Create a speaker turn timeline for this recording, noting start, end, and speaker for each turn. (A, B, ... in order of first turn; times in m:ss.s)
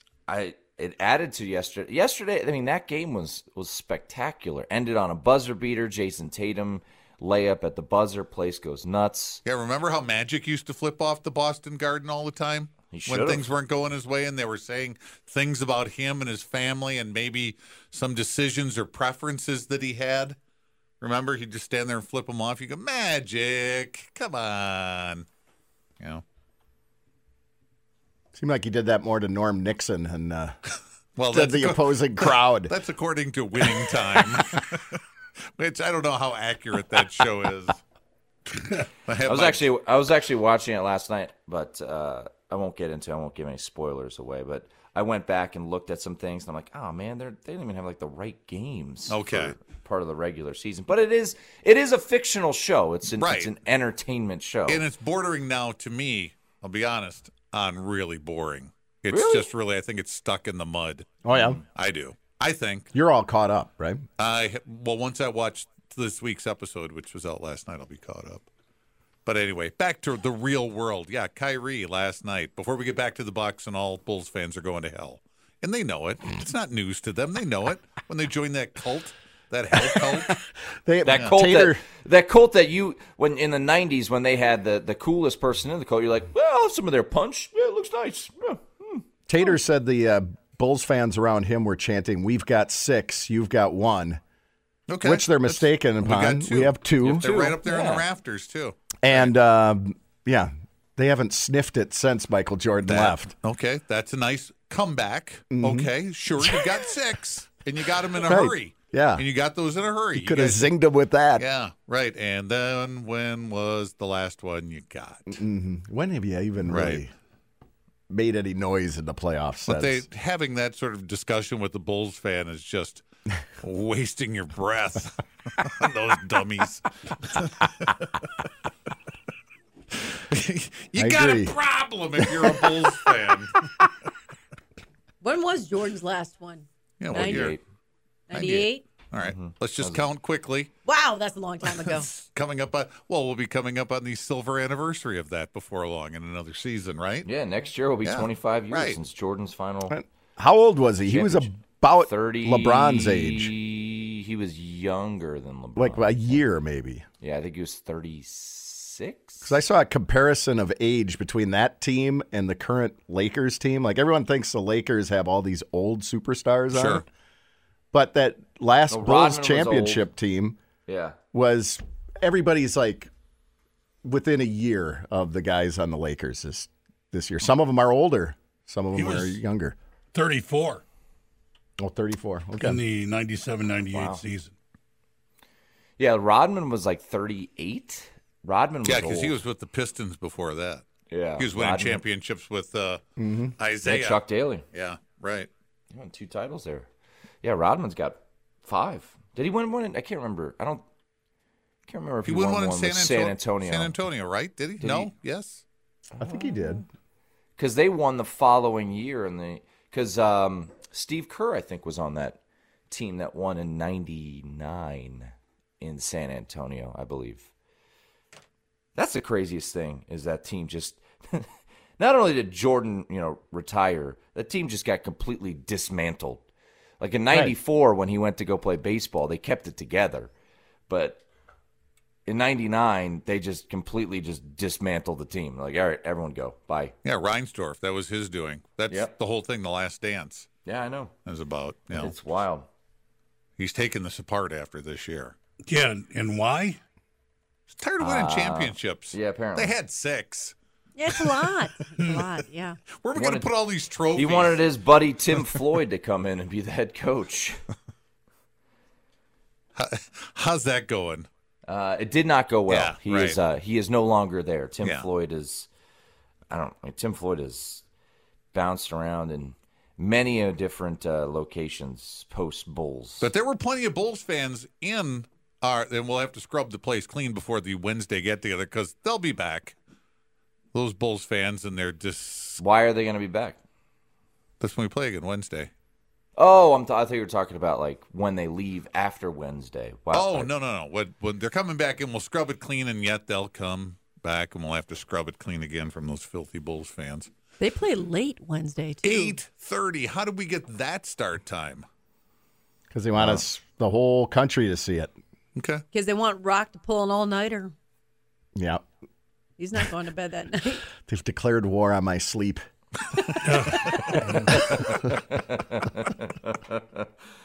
0:00.3-0:09.4 A
0:09.4-0:20.4 B
0:12.9-0:13.5 A
0:21.0-0:25.2 B
0:28.3-0:30.6 C
0:31.2-0:35.0 B
0:31.3-0:32.7 C
0:35.6-0:37.8 B
0:39.1-0:39.6 B
0:39.2-0:54.8 A
0:49.1-0:49.5 B
0:53.2-0:53.5 B
0:54.7-1:01.1 B
0:59.1-0:59.4 A
1:01.2-1:01.6 C
1:01.3-1:01.6 A
1:01.7-1:02.9 B
1:02.9-1:04.0 C
1:04.2-1:08.5 B
1:09.2-1:20.4 B
1:20.8-1:21.8 C
1:21.0-1:29.0 A
1:21.1-1:21.4 B
1:29.3-1:34.2 C
1:34.9-1:39.3 B
1:35.0-1:37.5 C
1:37.0-1:38.0 A
1:39.0-1:43.3 C
1:42.8-1:50.7 B
1:45.5-1:46.8 C
1:48.2-1:49.2 C
1:50.2-1:51.4 C
1:51.4-1:55.4 B
1:55.3-1:57.1 C
1:56.7-1:57.0 B
1:58.1-2:00.0 C
1:59.7-2:03.0 B
2:03.6-2:07.9 B
2:10.1-2:13.6 B
2:11.0-2:11.5 C
2:12.3-2:12.6 C
2:15.2-2:17.5 D
2:17.0-2:17.6 B
2:17.1-2:17.6 A
2:18.3-2:18.8 D
2:18.3-2:20.7 B
2:19.2-2:20.1 A
2:20.8-2:22.1 D
2:22.0-2:27.3 B
2:27.2-2:30.0 A
2:28.0-2:29.0 B
2:29.9-2:33.5 C
2:31.0-2:36.4 A
2:35.8-2:37.0 C
2:37.2-2:39.6 A
2:39.4-2:47.1 C
2:46.7-2:47.0 B
2:47.9-2:50.6 C
2:48.9-2:50.1 A
2:50.8-2:51.2 A
2:51.3-2:53.1 C
2:54.0-2:59.7 C
2:58.9-2:59.4 E
3:00.1-3:00.8 E
3:01.8-3:02.8 C
3:02.6-3:04.5 E
3:03.9-3:04.2 A
3:06.0-3:09.4 A
3:08.8-3:10.8 B
3:11.1-3:12.0 A
3:11.4-3:13.0 B
3:13.2-3:13.5 C
3:13.6-3:14.2 B
3:13.8-3:14.6 A
3:14.7-3:15.5 B
3:15.9-3:16.9 A
3:17.4-3:20.8 A
3:21.9-3:23.9 A
3:22.2-3:25.6 B
3:24.8-3:25.1 A
3:26.2-3:26.8 C
3:26.2-3:26.8 A
3:27.6-3:37.5 A
3:38.9-3:46.4 A
3:47.0-3:50.3 A
3:50.9-3:51.2 A
3:52.2-3:56.9 A
3:57.0-4:00.5 B
3:58.9-3:59.1 A
4:00.6-4:01.1 A
4:01.2-4:02.1 B
4:01.9-4:02.7 A
4:03.6-4:05.4 B
4:05.6-4:06.8 E
4:07.7-4:10.5 B
4:08.0-4:09.7 A
4:11.0-4:12.8 D
4:13.0-4:14.6 B
4:13.1-4:13.5 A
4:14.1-4:17.6 A
4:19.8-4:21.3 B
4:21.6-4:25.7 A
4:22.7-4:23.4 B
4:26.5-4:27.8 A
4:28.5-4:33.3 A
4:33.2-4:39.7 B
4:40.7-4:42.6 B
4:42.6-4:43.6 A
4:44.6-4:45.7 B
4:46.4-4:50.5 A
4:50.1-4:57.3 B
4:57.6-4:59.4 D
4:59.0-5:01.8 B
5:02.9-5:05.1 C
5:05.6-5:05.8 B
5:05.9-5:07.7 D
5:08.5-5:08.8 C
5:09.6-5:10.9 D
5:11.0-5:12.6 C
5:13.2-5:14.4 D
5:13.4-5:14.6 E
5:14.5-5:17.1 A